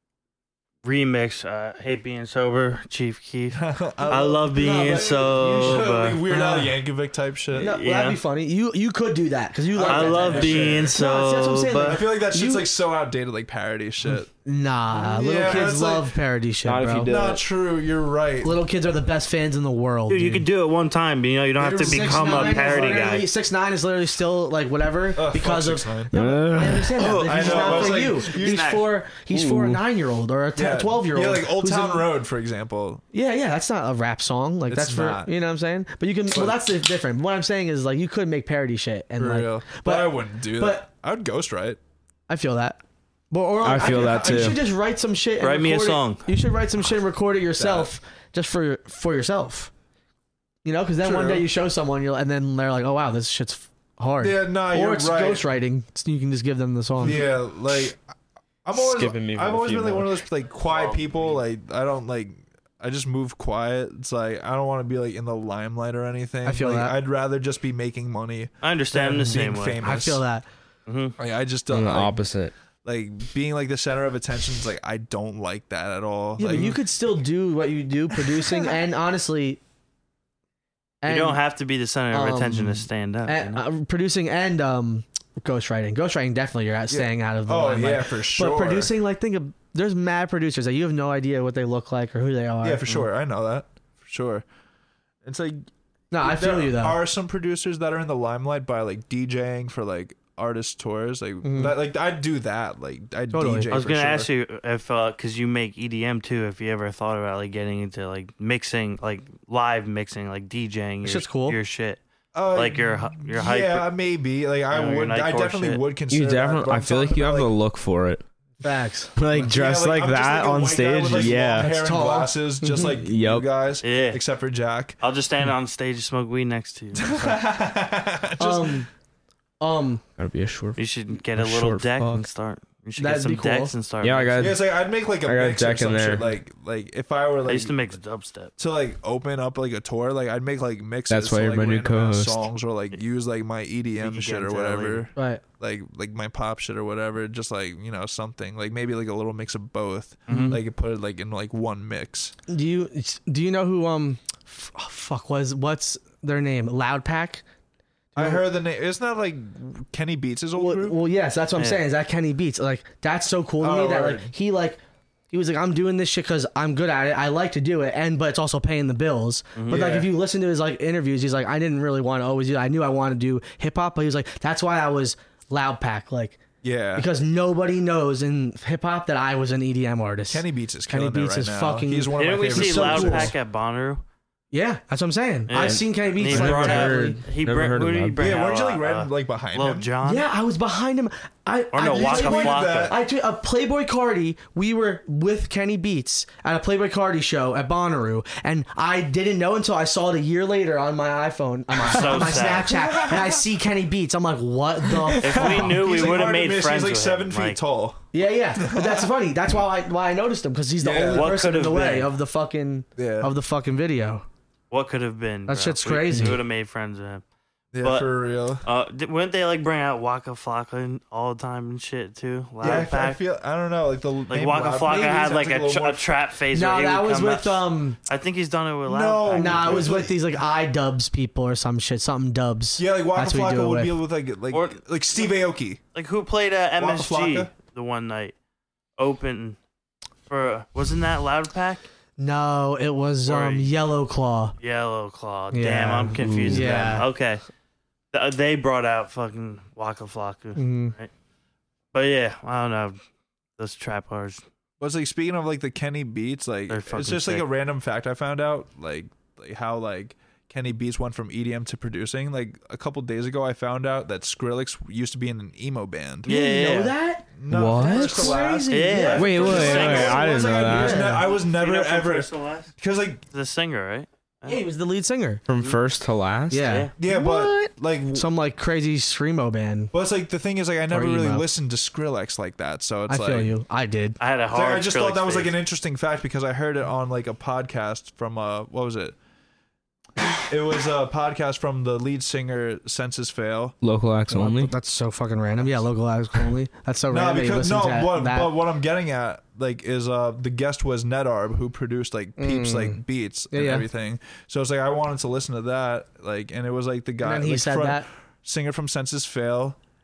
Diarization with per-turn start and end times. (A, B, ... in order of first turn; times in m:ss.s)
0:00.8-0:06.2 A
0:03.5-0:07.7 B
0:04.6-0:06.8 C
0:07.5-0:12.7 C
0:07.6-0:08.2 A
0:09.7-0:11.0 B
0:09.8-0:12.0 A
0:11.8-0:14.3 B
0:14.4-0:17.1 C
0:15.0-0:16.1 B
0:16.6-0:17.4 D
0:17.0-0:18.6 B
0:18.4-0:20.4 C
0:20.1-0:23.3 A
0:21.6-0:23.0 B
0:21.8-0:32.1 C
0:25.1-0:26.1 B
0:26.1-0:27.0 D
0:26.9-0:28.9 A
0:27.2-0:28.7 B
0:29.3-0:29.8 D
0:30.5-0:33.0 B
0:33.1-0:40.9 C
0:34.7-0:35.3 B
0:36.3-0:36.6 B
0:39.2-0:41.8 B
0:42.3-0:49.7 C
0:43.6-0:44.6 D
0:43.8-0:44.6 B
0:45.4-0:46.3 A
0:47.6-0:47.9 B
0:50.6-0:57.2 C
0:51.0-0:51.5 B
0:54.2-0:55.4 B
0:57.0-0:58.0 B
0:58.6-1:10.2 B
0:58.7-1:00.2 D
1:00.6-1:01.4 A
1:06.4-1:07.0 C
1:08.6-1:09.8 A
1:09.8-1:10.4 C
1:10.9-1:11.2 A
1:11.2-1:12.2 B
1:11.7-1:12.5 D
1:12.8-1:16.8 B
1:16.4-1:19.6 C
1:18.3-1:18.7 B
1:21.0-1:21.4 C
1:21.0-1:23.6 A
1:22.1-1:32.8 C
1:26.9-1:28.9 B
1:32.6-1:34.4 B
1:35.2-1:35.7 B
1:36.1-1:37.0 C
1:36.2-1:44.3 B
1:41.4-1:41.7 C
1:43.3-1:43.7 C
1:43.7-1:52.0 A
1:51.0-1:51.6 C
1:52.3-1:57.5 B
1:52.5-1:53.9 A
1:54.7-1:55.8 A
1:56.1-1:58.2 D
1:58.6-1:59.1 C
1:59.2-2:01.8 D
1:59.3-2:05.0 B
2:01.5-2:02.9 C
2:02.8-2:03.4 D
2:03.8-2:04.2 A
2:05.0-2:07.4 A
2:06.9-2:08.8 B
2:08.4-2:08.9 C
2:09.6-2:10.0 C
2:10.2-2:12.2 D
2:10.8-2:14.5 A
2:13.0-2:13.7 C
2:14.0-2:16.2 D
2:14.4-2:17.7 B
2:17.4-2:18.5 A
2:18.6-2:32.3 B
2:21.1-2:22.4 D
2:24.0-2:25.1 A
2:25.2-2:25.4 C
2:30.3-2:30.6 A
2:30.3-2:30.6 C
2:32.5-2:37.4 C
2:38.1-2:38.4 C
2:38.2-2:41.0 B
2:40.6-2:44.8 C
2:41.6-2:41.8 A
2:43.6-2:44.3 B
2:45.3-2:56.4 C
2:49.6-2:49.8 A
2:49.7-2:50.1 B
2:56.6-2:57.1 B
2:56.9-3:03.3 C
3:00.3-3:03.3 B
3:02.2-3:04.0 A
3:04.5-3:07.2 C
3:05.5-3:10.2 A
3:05.6-3:08.2 D
3:08.2-3:09.9 B
3:10.0-3:25.7 C
3:11.7-3:12.9 A
3:11.9-3:13.0 B
3:21.8-3:22.8 A
3:22.0-3:23.4 B
3:25.2-3:27.6 A
3:25.3-3:29.1 B
3:28.1-3:34.2 C
3:30.8-3:31.3 B
3:31.1-3:32.1 A
3:33.0-3:33.3 B
3:34.7-3:37.2 A
3:35.5-3:36.4 C
3:37.7-3:38.6 B
3:37.8-3:38.1 A
3:38.6-3:43.2 A
3:42.6-3:46.1 B
3:44.3-3:50.0 A
3:46.5-3:48.0 C
3:48.8-3:50.2 B
3:49.4-3:54.0 C
3:52.8-3:55.8 B
3:54.5-3:55.3 A
3:55.9-3:58.3 A
3:56.8-3:57.5 B
3:59.0-3:59.6 A
4:00.3-4:01.8 A
4:02.2-4:04.5 C
4:03.2-4:03.7 A
4:04.6-4:07.4 A
4:05.5-4:07.1 C
4:06.2-4:06.8 D
4:08.1-4:11.1 A
4:10.6-4:10.9 C
4:11.9-4:13.0 A
4:13.6-4:14.4 A
4:14.8-4:26.3 B
4:16.7-4:17.4 A
4:26.2-4:26.9 A
4:26.2-4:30.0 C
4:27.4-4:33.2 B
4:27.5-4:28.4 D
4:28.7-4:32.7 A
4:29.1-4:31.2 D
4:30.7-4:31.2 C
4:33.3-4:34.6 A
4:34.5-4:35.4 C
4:35.5-4:37.7 D
4:36.5-4:36.9 C
4:36.6-4:36.9 A
4:37.0-4:38.3 B
4:38.1-4:39.9 C
4:39.9-4:43.5 B
4:40.9-4:41.4 C
4:43.1-4:44.2 C
4:44.2-4:45.5 A
4:44.5-4:49.2 B
4:50.4-4:53.8 B
4:53.8-4:54.7 D
4:54.3-4:58.6 C
4:57.1-5:09.8 B
5:02.4-5:03.9 C
5:07.2-5:08.1 C